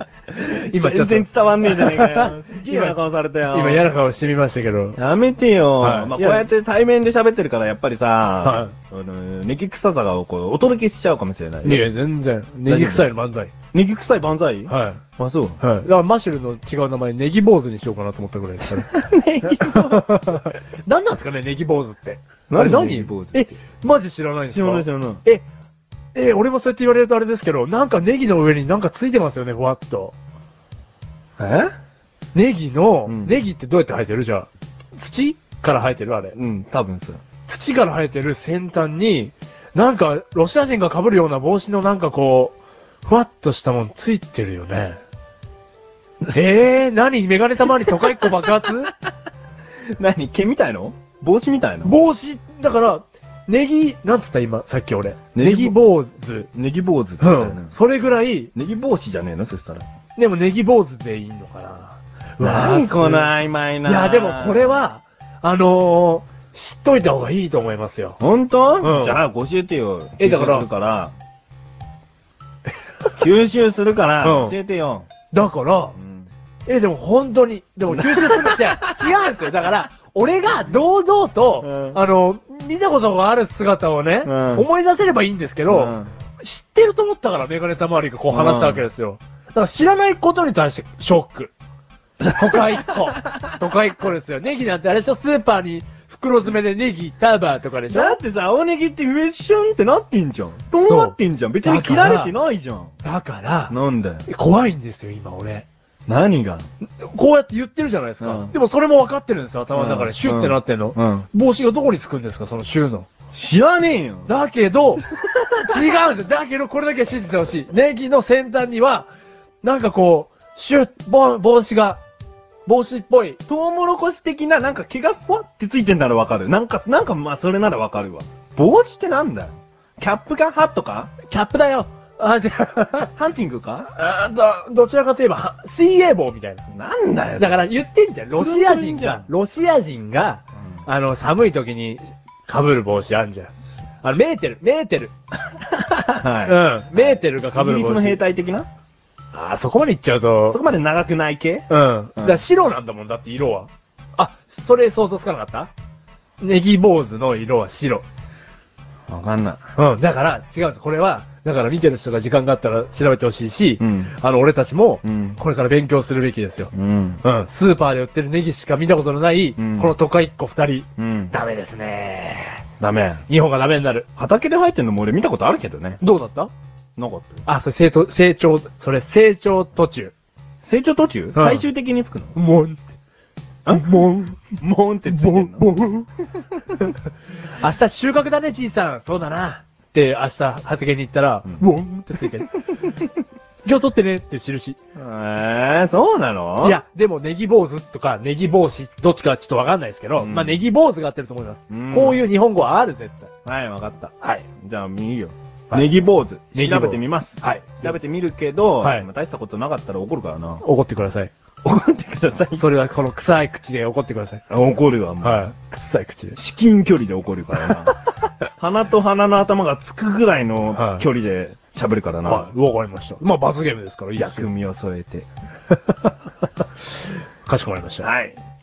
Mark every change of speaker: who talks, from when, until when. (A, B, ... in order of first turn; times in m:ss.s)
0:00.3-0:03.0 A
0:00.7-0:03.9 B
0:03.5-0:05.0 A
0:05.0-0:11.9 B
0:05.8-0:06.4 A
0:08.4-0:08.8 A
0:11.6-0:13.5 A
0:12.7-0:13.1 B
0:13.7-0:15.6 B
0:14.7-0:15.0 A
0:15.6-0:18.9 A
0:18.7-0:20.0 B
0:19.4-0:25.4 A
0:22.5-0:23.5 B
0:24.5-0:25.2 B
0:26.2-0:30.2 A
0:31.4-0:31.7 B
0:32.3-0:36.4 A
0:33.1-0:33.4 B
0:36.3-0:37.2 B
0:37.5-0:45.0 A
0:46.3-0:48.9 A
0:50.0-0:52.0 B
0:51.8-0:56.5 A
0:55.4-0:55.8 B
0:56.5-0:57.8 B
0:57.2-0:58.5 A
0:58.6-0:59.8 B
1:00.2-1:03.3 A
1:02.4-1:04.8 B
1:03.8-1:08.2 A
1:08.2-1:11.1 B
1:08.8-1:09.2 A
1:10.2-1:10.7 A
1:13.2-1:15.1 B
1:14.2-1:14.6 A
1:15.3-1:16.0 A
1:16.0-1:16.3 B
1:16.7-1:31.5 A
1:17.9-1:19.1 B
1:21.6-1:22.0 B
1:24.2-1:24.7 B
1:25.7-1:26.1 B
1:28.3-1:28.9 B
1:32.2-1:33.4 B
1:32.3-1:38.2 A
1:37.9-1:43.0 B
1:40.8-1:42.3 A
1:43.0-1:43.8 A
1:43.7-1:44.3 B
1:44.3-1:45.7 A
1:46.1-1:46.7 B
1:47.0-1:53.1 A
1:48.2-1:48.5 B
1:49.7-1:51.3 B
1:53.3-1:54.3 B
1:54.3-1:55.0 A
1:55.5-1:55.8 B
1:55.6-1:59.1 A
1:59.6-2:02.0 A
2:02.7-2:03.4 A
2:03.5-2:11.1 B
2:11.2-2:13.1 A
2:13.2-2:13.9 B
2:14.0-2:16.6 A
2:16.7-2:17.7 B
2:17.4-2:23.5 A
2:18.4-2:19.3 B
2:24.0-2:25.1 A
2:26.1-2:28.7 B
2:26.4-2:28.2 A
2:29.3-2:30.6 A
2:30.5-2:32.4 B
2:31.7-2:35.7 A
2:36.4-2:38.0 A
2:39.1-2:39.6 B
2:39.8-2:46.7 A
2:43.8-2:44.2 B
2:45.0-2:45.4 B
2:46.7-2:47.2 B
2:47.2-2:52.6 A
2:49.6-2:49.9 B
2:51.0-2:51.3 B
2:52.8-2:53.2 B
2:53.3-2:54.1 A
2:54.2-2:56.0 B
2:56.0-2:56.5 A
2:57.0-2:57.4 B
2:57.5-3:00.1 A
3:00.6-3:02.4 B
3:01.4-3:01.6 A
3:02.4-3:02.8 A
3:03.6-3:05.7 B
3:03.7-3:04.4 A
3:05.1-3:06.1 A
3:07.6-3:12.6 A
3:13.6-3:14.8 A
3:15.0-3:16.8 B
3:16.6-3:23.3 A
3:20.2-3:20.6 B
3:21.7-3:22.2 B
3:23.4-3:30.6 B
3:26.5-3:28.0 A
3:28.8-3:29.1 A
3:30.6-3:31.3 A
3:31.6-3:32.6 B
3:32.6-3:34.4 A
3:34.5-3:35.5 B
3:35.2-3:36.4 A
3:36.4-3:38.0 B
3:38.6-3:42.5 B
3:40.7-3:41.0 A
3:42.2-3:44.5 A
3:44.2-3:45.3 B
3:47.4-3:48.1 A
3:48.0-3:48.4 B